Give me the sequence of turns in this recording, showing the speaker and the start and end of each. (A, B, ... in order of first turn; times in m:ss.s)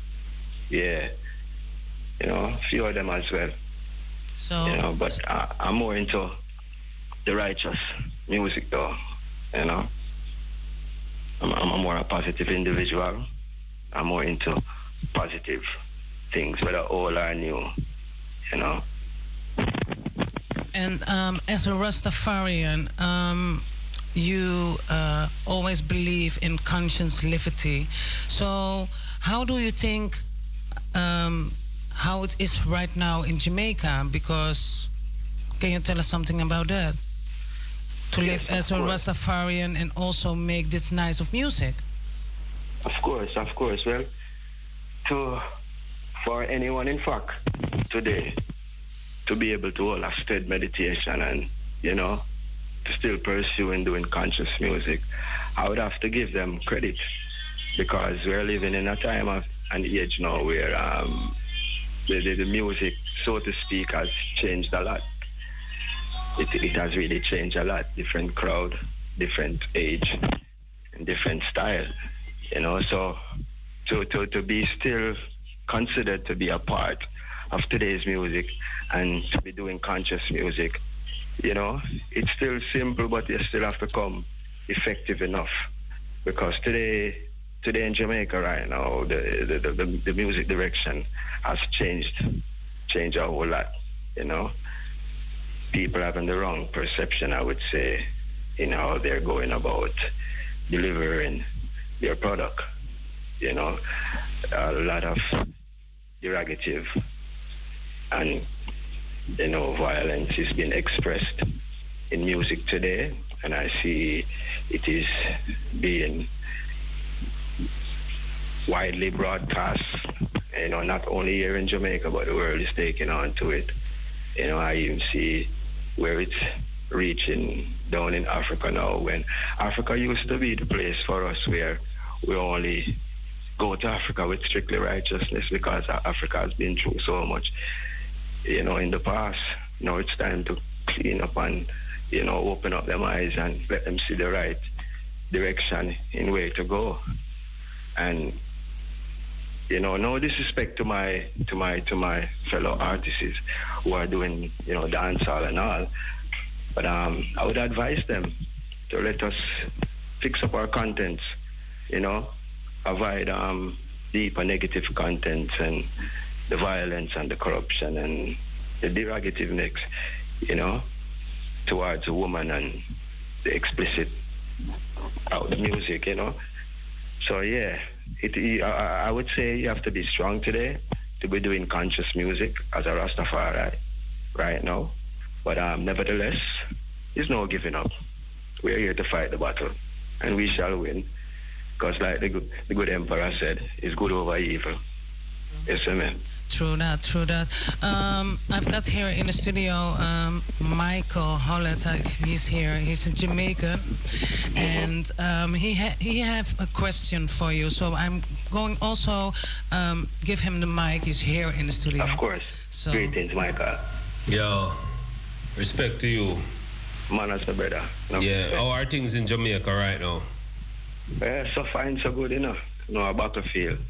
0:00.7-0:01.1 A
0:02.2-0:03.5 A
0:04.4-0:04.8 B
0:04.6-0:06.4 A
0:07.2-0:09.0 A
0:09.5-0:09.9 A
0:11.4-0:13.2 A
0:13.9-0:14.6 A
0:15.1-0:15.6 A
0:16.3-0:17.7 A
0:18.5-0:18.8 A
0:20.7-0:23.6 B
0:24.1-0:30.2 B
0:30.9-0:34.9 B
0:35.6-0:37.0 B
0:38.1-0:41.8 B
0:38.2-0:39.0 A
0:42.8-0:44.1 A
0:45.0-0:45.4 A
0:46.2-0:47.4 A
0:47.9-0:48.3 A
0:49.2-0:52.2 A
0:52.8-0:55.0 A
0:55.6-0:57.0 A
0:57.8-1:01.3 A
1:02.1-1:05.0 A
1:06.4-1:10.2 A
1:11.0-1:11.9 A
1:12.5-1:13.2 A
1:13.8-1:15.2 A
1:15.7-1:20.8 A
1:21.4-1:25.5 A
1:26.2-1:32.2 A
1:32.9-1:34.5 A
1:35.7-1:38.0 A
1:38.6-1:40.0 A
1:40.7-1:41.4 A
1:42.0-1:42.6 A
1:43.4-1:43.8 A
1:44.5-1:45.2 A
1:46.2-1:46.9 A
1:48.1-1:48.4 A
1:49.4-1:51.4 A
1:52.1-1:55.1 A
1:55.8-1:56.3 A
1:58.7-1:59.8 A
2:00.5-2:03.7 A
2:04.4-2:06.4 A
2:06.9-2:12.9 A
2:13.6-2:17.5 A
2:18.4-2:24.6 A
2:25.3-2:27.0 A
2:28.0-2:28.4 A
2:29.7-2:35.9 A
2:36.7-2:38.3 A
2:38.9-2:39.7 A
2:40.2-2:41.2 A
2:41.9-2:42.3 A
2:42.8-2:45.9 A
2:46.5-2:49.8 A
2:50.4-2:50.8 A
2:51.6-2:52.8 A
2:53.4-2:54.2 A
2:55.3-2:56.4 A
2:57.2-3:03.8 A
3:04.3-3:04.9 A
3:05.4-3:06.5 A
3:07.1-3:07.9 A
3:08.6-3:11.1 A
3:11.8-3:14.8 A
3:15.7-3:16.2 A
3:16.5-3:24.0 B
3:24.5-3:33.2 B
3:24.6-3:24.9 A
3:32.0-3:33.8 A
3:34.3-3:34.8 C
3:35.6-3:36.4 C
3:37.1-3:38.6 A
3:38.2-3:40.2 C
3:41.2-3:43.8 A